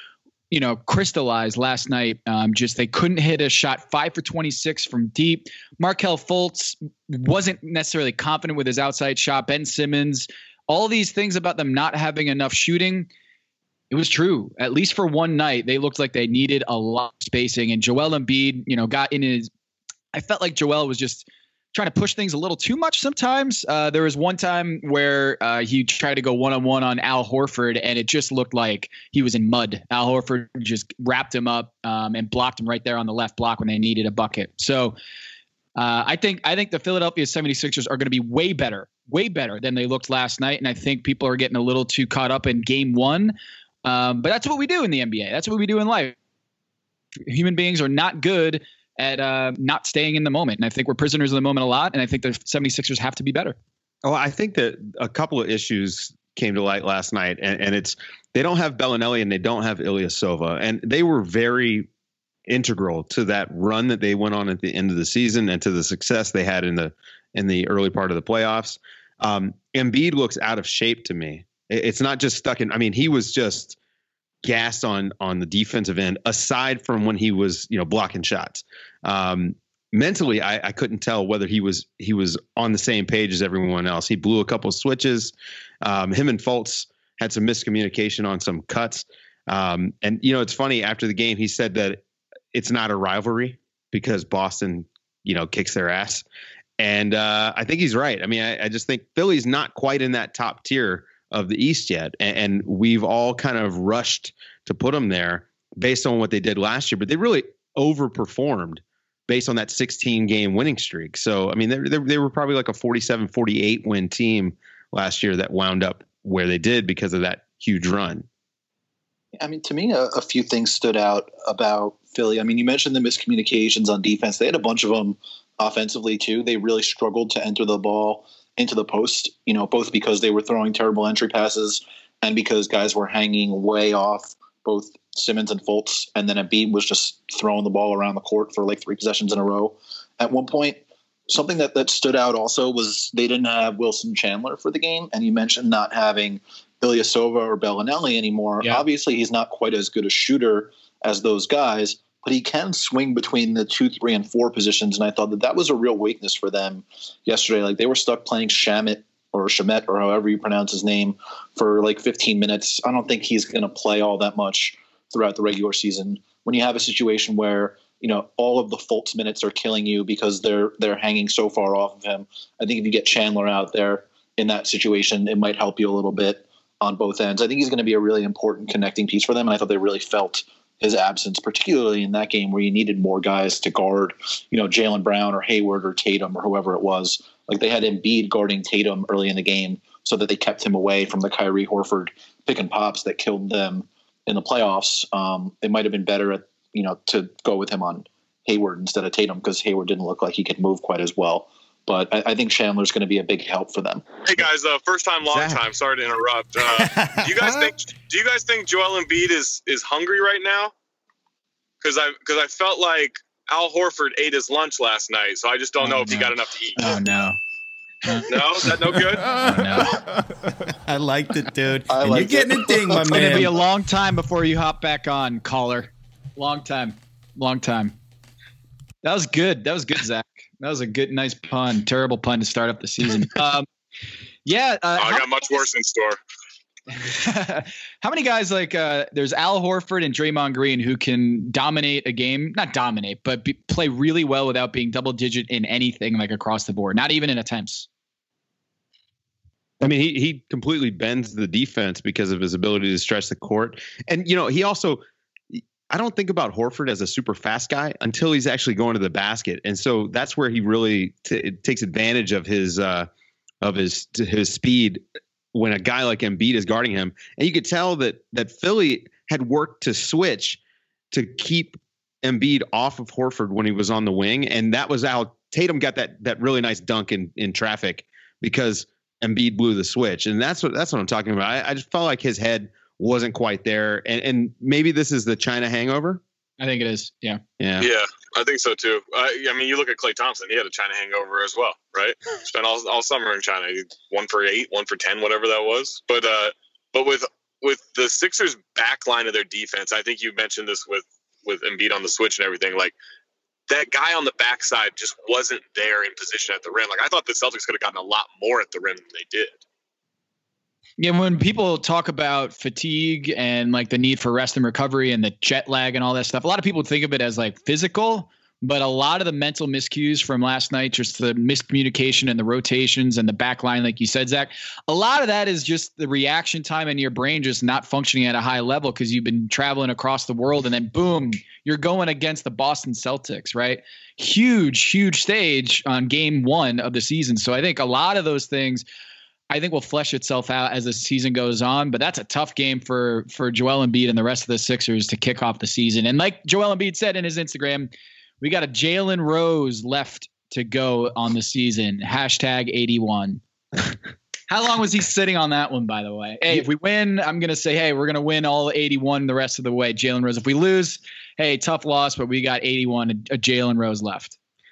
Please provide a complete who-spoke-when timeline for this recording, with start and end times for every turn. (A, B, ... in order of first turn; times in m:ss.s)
0:00.5-0:13.1 A
0:13.9-0:19.5 A
0:20.1-0:34.9 A
0:35.8-0:46.2 A
0:47.3-0:53.6 A
0:54.0-1:01.9 B
1:02.5-1:13.8 B
1:14.4-1:32.0 B
1:32.5-1:36.2 B
1:36.8-1:58.2 B
1:59.4-3:24.0 C
3:24.2-3:30.7 D
3:25.2-3:25.6 B
3:26.8-3:27.7 E
3:31.8-3:36.8 D
3:35.8-3:37.4 A
3:38.0-3:38.7 A
3:38.3-3:39.3 D
3:39.2-3:40.0 A
3:40.7-3:43.6 E
3:41.9-3:43.4 C
3:43.1-3:48.0 A
3:49.0-3:53.7 A
3:54.4-3:55.7 A
3:55.0-3:56.2 D
3:56.9-4:07.9 A
4:09.8-4:23.1 B
4:23.6-4:25.0 B
4:25.5-4:30.6 B
4:31.1-4:46.2 B
4:46.6-4:47.4 A
4:47.6-4:47.9 B
4:47.8-5:02.9 D
5:03.7-5:09.6 D
5:11.0-5:38.8 A
5:39.5-5:53.4 A
5:54.5-6:04.4 A